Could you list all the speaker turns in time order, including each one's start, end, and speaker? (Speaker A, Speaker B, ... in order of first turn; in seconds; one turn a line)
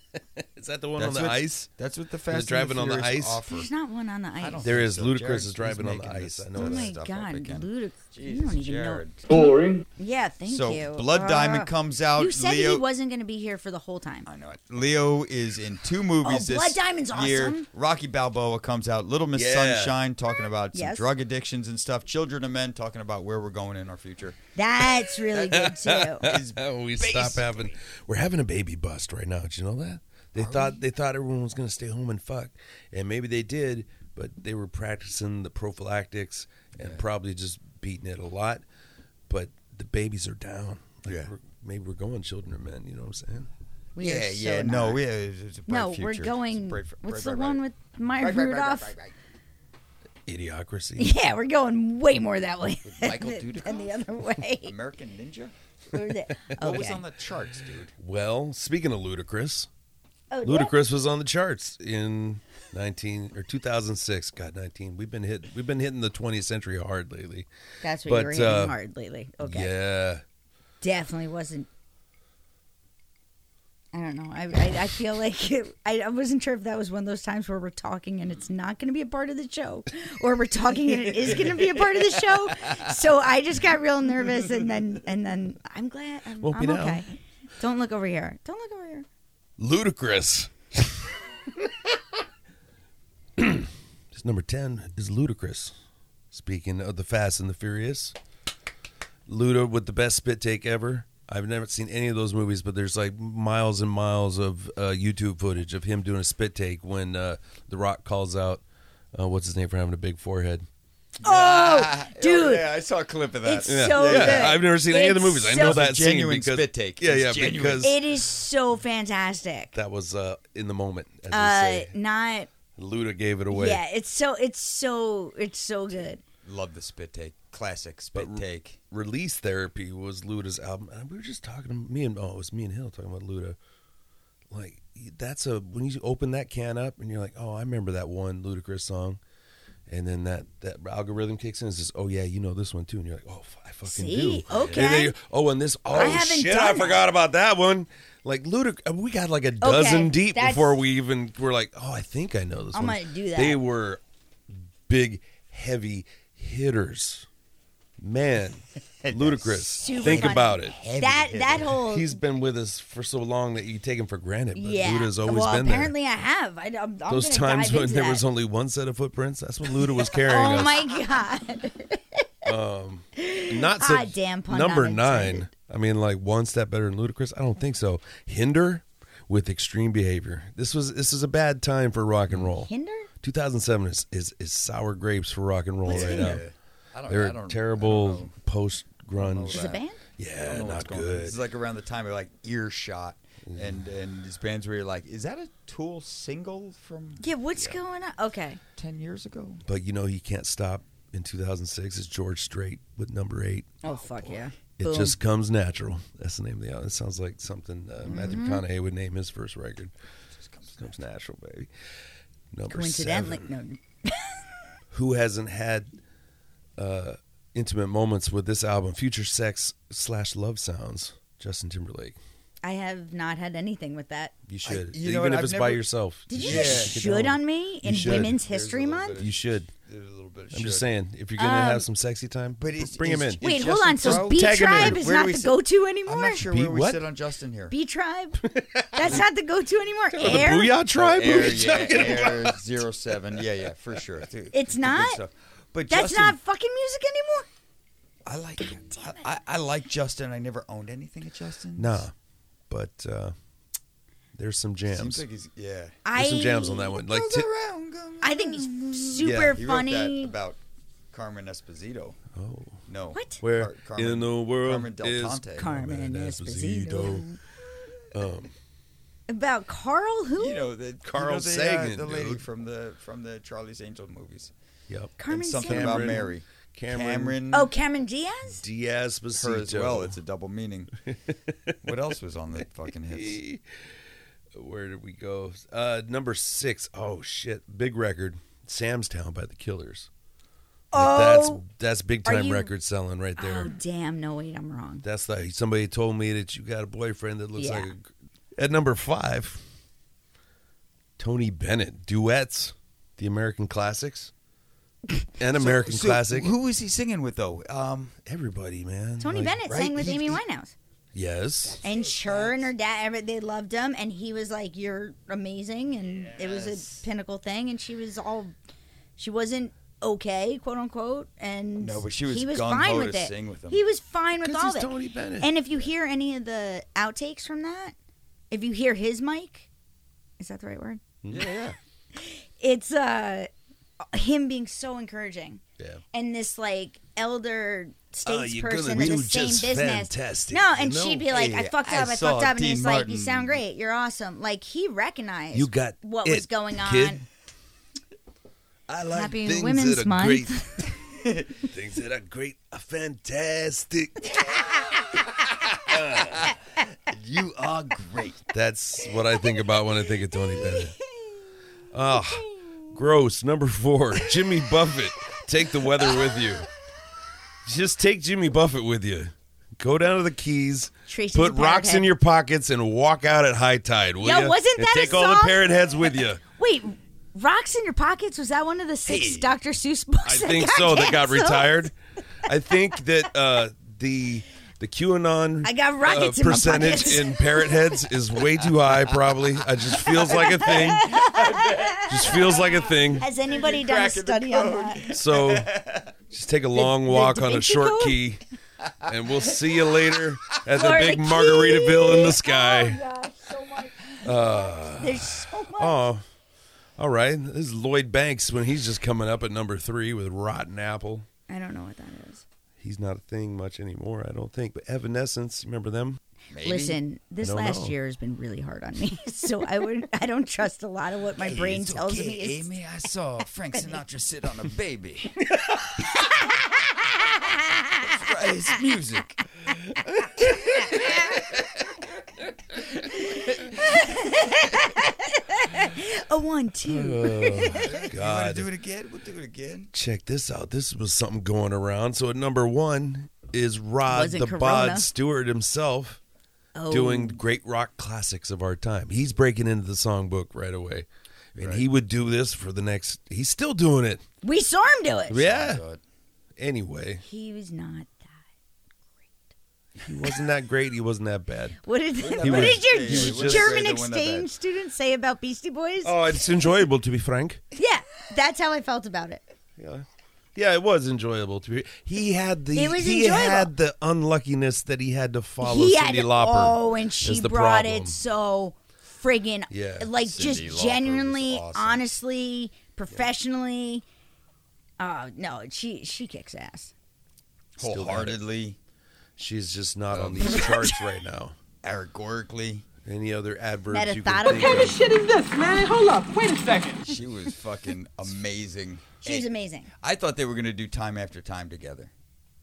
Speaker A: 0.4-1.7
Speaker B: 1.0-3.7
Speaker A: 2.3-3.4
Speaker C: 3.5-4.7
Speaker B: 4.4-9.2
Speaker A: 4.6-6.9
Speaker C: 6.5-9.0
Speaker D: 9.3-9.8
Speaker C: 10.0-14.3
Speaker B: 10.4-12.8
Speaker B: 14.2-24.4
Speaker C: 16.2-17.7
Speaker A: 19.3-19.9
Speaker C: 20.7-21.1
Speaker C: 24.6-26.3
Speaker A: 25.3-38.6
Speaker B: 26.2-27.8
Speaker B: 30.4-30.8
Speaker B: 36.8-37.0
Speaker A: 39.3-43.5
Speaker B: 41.0-41.3
Speaker C: 44.0-45.0
Speaker B: 44.0-47.6
Speaker C: 45.7-48.9
Speaker B: 48.2-49.1
Speaker A: 50.3-51.1
Speaker C: 51.0-54.7
Speaker B: 52.8-54.0
Speaker B: 54.6-55.5
Speaker C: 55.9-57.0
Speaker B: 56.6-57.9
Speaker A: 58.0-59.7
Speaker C: 60.3-60.7
Speaker A: 60.4-67.5
Speaker C: 67.8-69.7
Speaker A: 68.0-68.8
Speaker A: 69.4-70.2
Speaker C: 70.8-71.7
Speaker C: 73.9-89.0
Speaker B: 82.6-82.9
Speaker A: 86.4-87.0
Speaker A: 89.6-91.7
Speaker A: 93.4-95.7
Speaker A: 96.3-98.1
Speaker A: 99.3-108.6
Speaker A: 109.1-110.7
Speaker C: 111.2-112.7
Speaker B: 111.2-114.6
Speaker C: 113.4-115.8
Speaker A: 113.7-117.9
Speaker B: 115.5-118.0
Speaker C: 117.8-119.7
Speaker A: 119.7-121.9
Speaker C: 121.3-122.5
Speaker A: 122.8-123.8
Speaker C: 123.5-126.2
Speaker B: 126.4-128.8
Speaker A: 128.1-133.6
Speaker A: 134.5-139.2
Speaker A: 139.9-157.2
Speaker C: 143.8-145.1
Speaker B: 144.5-144.9
Speaker C: 145.9-147.0
Speaker C: 149.6-150.8
Speaker C: 152.7-153.6
Speaker A: 158.0-160.8
Speaker B: 159.0-161.8
Speaker C: 159.8-162.2
Speaker A: 161.6-165.9
Speaker C: 164.5-168.2
Speaker A: 167.1-170.8
Speaker C: 170.2-172.2
Speaker A: 172.4-182.7
Speaker C: 173.2-175.5
Speaker C: 182.6-183.1
Speaker A: 183.2-186.4
Speaker C: 185.8-186.4
Speaker B: 185.9-188.3
Speaker A: 187.1-191.4
Speaker B: 189.2-189.8
Speaker C: 189.5-190.0
Speaker B: 190.4-197.8
Speaker A: 193.4-193.8
Speaker C: 197.2-198.6
Speaker B: 198.7-199.6
Speaker A: 199.7-203.7
Speaker C: 203.8-205.2
Speaker B: 203.8-204.4
Speaker A: 204.8-209.9
Speaker C: 208.1-208.6
Speaker B: 208.1-208.3
Speaker B: 210.3-211.0
Speaker A: 210.8-211.7
Speaker A: 212.5-213.5
Speaker C: 212.7-214.4
Speaker A: 214.9-215.9
Speaker A: 216.8-222.2
Speaker C: 222.6-224.3
Speaker A: 224.5-228.4
Speaker B: 224.6-225.8
Speaker C: 226.3-229.2
Speaker B: 226.4-226.9
Speaker B: 227.9-230.9
Speaker A: 229.1-229.7
Speaker A: 230.5-233.4
Speaker C: 231.4-231.8
Speaker B: 232.6-237.7
Speaker C: 233.4-236.4
Speaker A: 234.0-235.0
Speaker A: 236.5-237.0
Speaker C: 237.7-240.8
Speaker A: 238.4-239.2
Speaker A: 240.2-242.6
Speaker B: 240.2-246.4
Speaker C: 244.5-245.2
Speaker C: 245.9-247.5
Speaker B: 248.2-252.0
Speaker A: 251.8-252.1
Speaker A: 252.7-253.3
Speaker A: 254.3-255.2
Speaker B: 254.9-256.0
Speaker C: 256.0-256.9
Speaker A: 256.1-257.5
Speaker B: 256.9-262.2
Speaker C: 258.2-260.3
Speaker A: 259.2-259.6
Speaker A: 262.3-262.8
Speaker B: 262.9-265.7
Speaker C: 263.1-263.4
Speaker A: 263.4-267.2
Speaker C: 265.6-267.4
Speaker A: 268.1-268.5
Speaker C: 269.3-270.7
Speaker B: 270.4-274.5
Speaker A: 271.0-272.4
Speaker A: 274.9-277.4
Speaker C: 275.2-276.2
Speaker B: 275.3-277.7
Speaker C: 277.5-278.6
Speaker A: 278.6-280.1
Speaker B: 279.3-280.9
Speaker A: 281.1-281.7
Speaker B: 281.8-283.4
Speaker A: 283.1-283.6
Speaker A: 284.5-290.1
Speaker C: 290.9-291.6
Speaker A: 290.9-293.7
Speaker C: 292.2-292.7
Speaker C: 293.4-295.0
Speaker A: 295.0-299.6
Speaker C: 297.6-297.9
Speaker A: 301.2-304.3
Speaker A: 305.4-306.5
Speaker B: 305.5-308.1
Speaker A: 308.2-310.4
Speaker C: 309.2-310.7
Speaker A: 311.1-311.8
Speaker B: 311.8-312.7
Speaker C: 311.8-318.5
Speaker B: 316.3-317.0
Speaker C: 319.2-327.9
Speaker B: 321.8-323.8
Speaker A: 324.4-325.5
Speaker C: 328.5-329.7
Speaker C: 330.4-331.0
Speaker A: 331.2-331.8
Speaker C: 332.1-333.5
Speaker C: 334.0-335.6
Speaker C: 336.1-347.2
Speaker A: 338.2-341.3
Speaker B: 341.3-343.6
Speaker A: 345.5-347.2
Speaker A: 348.9-350.6
Speaker C: 349.1-351.0
Speaker A: 351.6-354.9
Speaker A: 355.8-356.5
Speaker B: 356.2-356.5
Speaker B: 357.1-358.4
Speaker A: 358.5-360.9
Speaker C: 360.5-360.8
Speaker A: 361.9-366.7
Speaker A: 367.6-376.4
Speaker C: 371.1-372.1
Speaker C: 374.2-381.9
Speaker B: 379.1-379.5
Speaker A: 380.2-391.1
Speaker C: 385.6-387.9
Speaker C: 390.2-392.5
Speaker B: 390.4-392.8
Speaker A: 392.1-393.2
Speaker C: 393.1-395.0
Speaker B: 393.4-396.1
Speaker A: 395.1-395.7
Speaker A: 396.3-398.4
Speaker C: 396.7-398.2
Speaker B: 398.8-400.1
Speaker A: 399.0-403.0
Speaker C: 400.7-406.1
Speaker A: 404.2-406.2
Speaker A: 407.0-411.2
Speaker C: 411.5-412.4
Speaker A: 412.8-416.2
Speaker B: 416.5-417.0
Speaker C: 416.6-422.7
Speaker A: 417.4-417.9
Speaker B: 421.4-425.4
Speaker C: 427.1-428.1
Speaker B: 428.0-429.4
Speaker B: 430.8-431.8
Speaker C: 433.0-437.9
Speaker A: 436.9-438.7
Speaker B: 437.7-439.9
Speaker A: 439.9-446.2
Speaker C: 444.1-445.1
Speaker C: 446.7-447.4
Speaker A: 446.9-454.2
Speaker B: 451.6-451.9
Speaker C: 454.4-455.4
Speaker A: 455.3-455.8
Speaker B: 455.3-456.0
Speaker A: 456.6-457.2
Speaker C: 457.2-458.4
Speaker A: 460.0-461.8
Speaker C: 461.8-466.7
Speaker B: 462.2-464.5
Speaker A: 462.4-463.8
Speaker A: 466.0-467.6
Speaker C: 467.7-469.4
Speaker A: 469.8-478.2
Speaker C: 472.7-473.7
Speaker C: 475.6-484.0
Speaker A: 479.7-480.1
Speaker B: 480.2-482.0
Speaker C: 485.0-486.9
Speaker B: 487.8-488.8
Speaker A: 487.8-488.4
Speaker A: 489.4-491.6
Speaker B: 490.1-490.8
Speaker C: 490.4-490.9
Speaker B: 491.8-492.9
Speaker A: 493.0-495.0
Speaker C: 493.9-495.0
Speaker D: 494.4-497.1
Speaker B: 497.0-502.1
Speaker C: 499.2-499.9